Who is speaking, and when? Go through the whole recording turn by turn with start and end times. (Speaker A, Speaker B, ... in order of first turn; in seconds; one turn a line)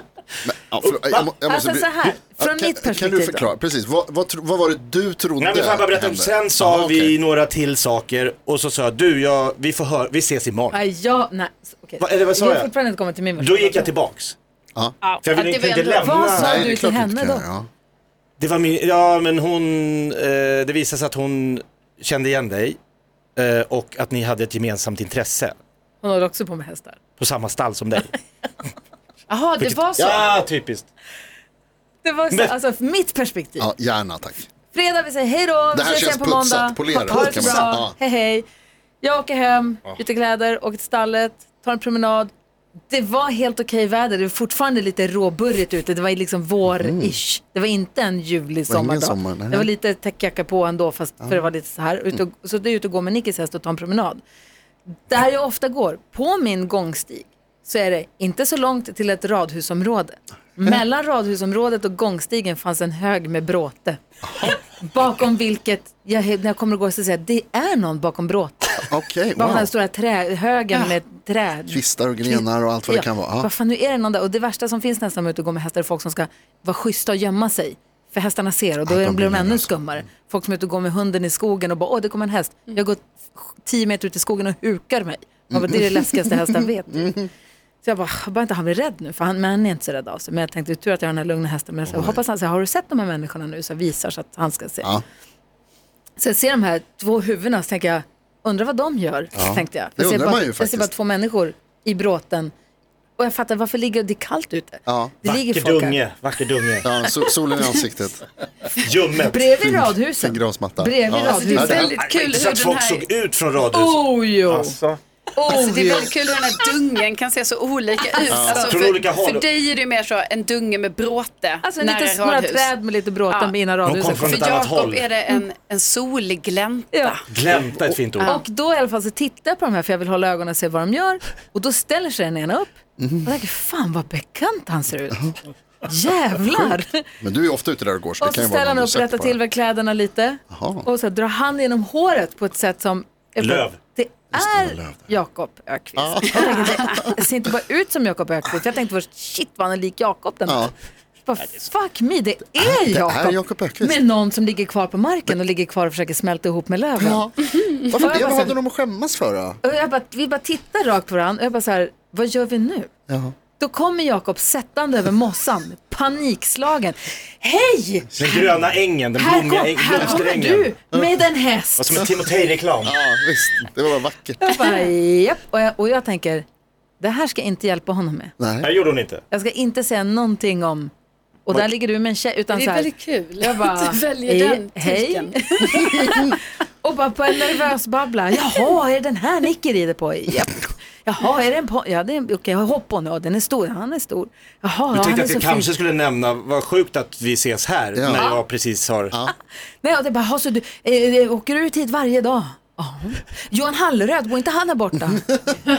Speaker A: 0.4-7.1
Speaker B: 1.1-3.5
Speaker C: 5.4-10.8
Speaker B: 10.7-13.9
Speaker C: 12.0-12.7
Speaker C: 13.4-14.4
Speaker C: 15.2-16.7
Speaker D: 15.3-16.2
Speaker B: 16.0-17.4
Speaker A: 16.3-17.7
Speaker C: 18.4-22.8
Speaker C: 23.4-25.6
Speaker B: 26.0-27.0
Speaker C: 27.2-28.1
Speaker D: 29.3-30.2
Speaker C: 29.6-30.9
Speaker B: 32.0-33.7
Speaker A: 33.6-34.5
Speaker B: 34.7-38.5
Speaker A: 35.7-38.0
Speaker C: 37.1-37.8
Speaker B: 39.0-42.3
Speaker B: 42.9-54.2
Speaker A: 46.7-47.1
Speaker A: 48.7-49.7
Speaker B: 55.1-68.8
Speaker A: 68.8-69.7
Speaker B: 69.4-87.2
Speaker A: 71.7-73.5
Speaker A: 78.9-79.9
Speaker A: 85.5-86.5
Speaker B: 87.8-94.9
Speaker A: 91.9-92.2
Speaker B: 96.2-102.5
Speaker A: 99.3-100.9
Speaker B: 103.2-106.0
Speaker A: 104.9-105.2
Speaker C: 105.2-106.9
Speaker A: 106.8-108.2
Speaker C: 108.8-109.5
Speaker B: 109.2-111.9
Speaker A: 109.6-112.0
Speaker D: 111.2-113.1
Speaker C: 111.5-115.0
Speaker B: 113.7-114.8
Speaker B: 115.3-116.2
Speaker D: 115.5-122.7
Speaker A: 118.3-118.7
Speaker C: 118.5-119.5
Speaker B: 121.6-124.5
Speaker C: 123.8-125.1
Speaker D: 124.1-127.6
Speaker C: 127.3-128.4
Speaker D: 128.2-128.4
Speaker B: 128.2-132.7
Speaker A: 133.0-133.3
Speaker B: 133.2-135.3
Speaker B: 135.8-137.0
Speaker A: 136.4-139.4
Speaker B: 138.2-150.7
Speaker A: 140.5-140.9
Speaker C: 143.4-143.8
Speaker A: 144.3-145.2
Speaker A: 146.0-147.1
Speaker A: 150.5-150.7
Speaker B: 151.2-157.3
Speaker A: 152.6-154.0
Speaker A: 157.0-159.6
Speaker B: 158.0-158.5
Speaker B: 159.6-162.9
Speaker A: 163.1-163.3
Speaker B: 163.6-168.5
Speaker C: 168.2-170.7
Speaker B: 169.2-172.1
Speaker C: 171.8-172.9
Speaker A: 172.8-174.4
Speaker B: 174.4-176.5
Speaker B: 177.0-178.3
Speaker A: 178.4-178.7
Speaker C: 178.6-179.2
Speaker B: 179.3-180.9
Speaker B: 181.5-182.9
Speaker D: 182.5-186.0
Speaker B: 183.4-195.7
Speaker C: 194.9-199.2
Speaker A: 197.9-198.3
Speaker B: 199.8-205.3